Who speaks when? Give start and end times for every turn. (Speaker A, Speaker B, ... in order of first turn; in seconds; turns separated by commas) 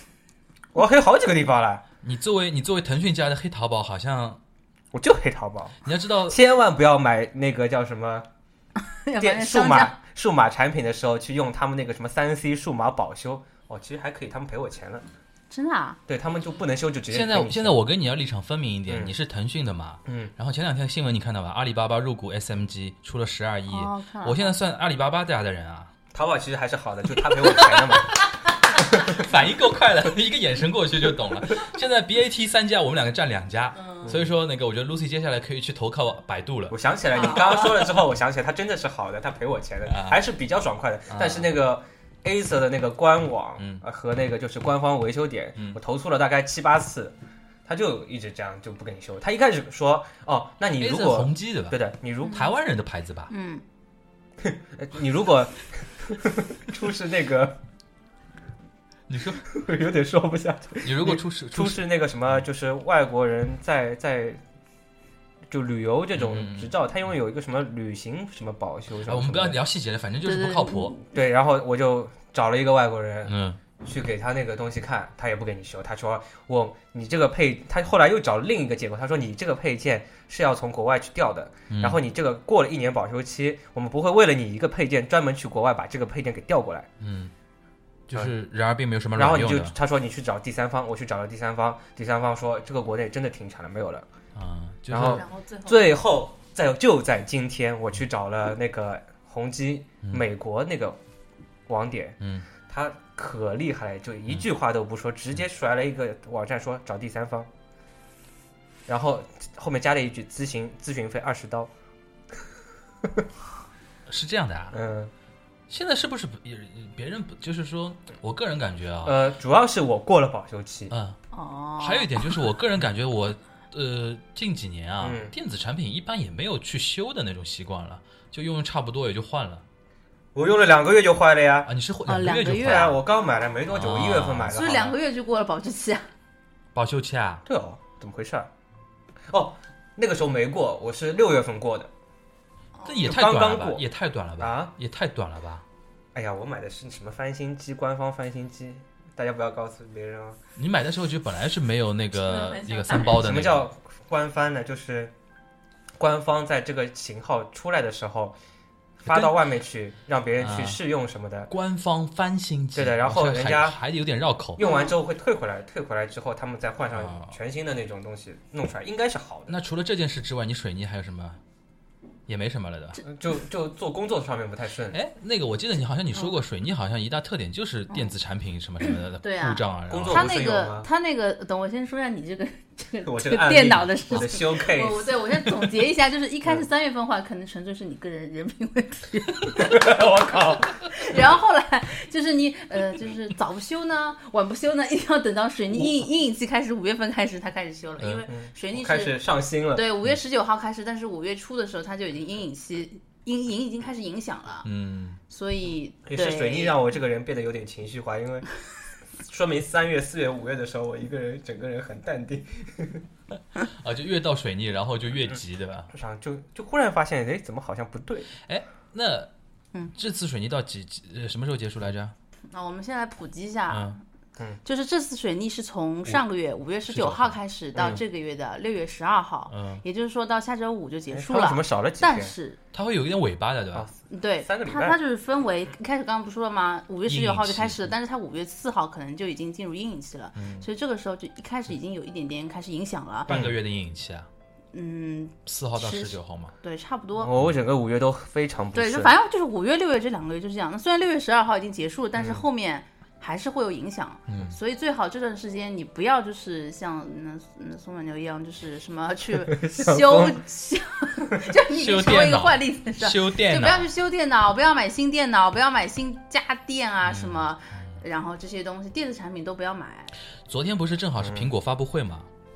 Speaker A: 0.7-1.9, Speaker B: 2.0-4.4, Speaker A: 4.9-8.3, Speaker B: 5.8-6.4, Speaker C: 8.8-9.9, Speaker A: 9.2-15.1, Speaker C: 15.5-16.0, Speaker A: 16.1-17.8, Speaker B: 17.1-25.9, Speaker A: 18.9-19.1, Speaker A: 20.1-20.3, Speaker C: 23.7-24.5, Speaker A: 26.1-28.2, Speaker B: 27.4-36.8, Speaker A: 28.8-29.3, Speaker C: 33.8-34.1, Speaker A: 34.0-34.3, Speaker A: 36.7-52.5, Speaker C: 37.1-37.8, Speaker B: 39.9-40.2, Speaker B: 41.1-41.5, Speaker B: 43.6-43.8, Speaker B: 50.8-53.3, Speaker C: 52.2-52.5, Speaker C: 53.3-53.6, Speaker A: 54.4-57.6, Speaker B: 59.1-59.5, Speaker A: 59.5-64.4, Speaker B: 60.8-62.4, Speaker A: 65.5-69.6, Speaker B: 66.2-66.7, Speaker B: 69.1-71.0, Speaker C: 70.2-71.0, Speaker A: 71.1-86.9, Speaker B: 73.3-73.6, Speaker B: 81.7-82.0, Speaker B: 87.0-87.3, Speaker B: 88.1-89.8, Speaker A: 89.2-94.1, Speaker B: 94.4-95.2, Speaker A: 94.9-101.0, Speaker C: 95.2-96.0, Speaker A: 101.7-107.5, Speaker B: 102.2-102.5, Speaker A: 108.9-111.7, Speaker B: 114.1-114.8, Speaker A: 114.7-115.1, Speaker B: 115.7-119.2, Speaker A: 119.0-120.9, Speaker B: 120.9-121.2, Speaker C: 121.3-122.3, Speaker B: 121.8-129.7, Speaker A: 125.0-125.3, Speaker A: 130.3-131.7, Speaker B: 131.7-133.0, Speaker C: 132.1-133.0, Speaker A: 132.5-134.9, Speaker B: 133.7-134.6, Speaker C: 134.5-136.1, Speaker B: 136.8-137.4, Speaker A: 137.5-138.5, Speaker A: 139.3-141.9, Speaker C: 142.8-143.0, Speaker B: 142.8-145.6, Speaker A: 143.0-143.8, Speaker A: 144.4-144.7, Speaker A: 146.2-150.4, Speaker B: 150.6-153.7, Speaker C: 152.2-153.3, Speaker A: 153.1-155.1, Speaker A: 156.0-158.4, Speaker A: 159.0-161.5, Speaker B: 159.0-159.4, Speaker B: 160.4-160.8, Speaker B: 161.5-164.6, Speaker A: 162.8-163.8, Speaker A: 164.6-169.6, Speaker C: 164.6-165.0, Speaker B: 166.9-167.3, Speaker B: 169.5-171.4, Speaker B: 172.3-173.0, Speaker A: 173.1-175.0, Speaker B: 174.9-180.2, Speaker C: 178.8-190.0, Speaker A: 179.9-180.9, Speaker A: 183.1-185.2, Speaker A: 189.6-191.1, Speaker C: 190.8-199.2, Speaker A: 198.3-199.9, Speaker C: 199.7-204.7, Speaker B: 204.6-205.2, Speaker C: 205.3-206.8, Speaker A: 206.1-208.5, Speaker A: 209.2-213.0, Speaker B: 213.7-215.9, Speaker A: 215.9-218.3, Speaker B: 218.5-219.3, Speaker B: 219.9-222.1, Speaker C: 222.5-224.0, Speaker B: 223.7-224.0, Speaker C: 224.6-232.6, Speaker B: 226.9-227.4, Speaker A: 227.8-228.0, Speaker B: 229.5-229.8, Speaker A: 231.1-232.3, Speaker B: 232.7-233.9, Speaker A: 233.7-235.0, Speaker C: 234.1-243.3, Speaker B: 237.1-237.9, Speaker B: 240.4-240.7, Speaker B: 243.3-244.3, Speaker A: 243.3-243.6, Speaker C: 244.7-247.3, Speaker B: 245.5-246.5, Speaker A: 247.2-249.1, Speaker C: 248.8-270.1, Speaker A: 252.2-252.4, Speaker B: 254.3-254.6, Speaker A: 259.4-260.4, Speaker B: 261.7-263.9, Speaker B: 267.0-268.0, Speaker B: 270.5-272.3, Speaker A: 271.2-271.5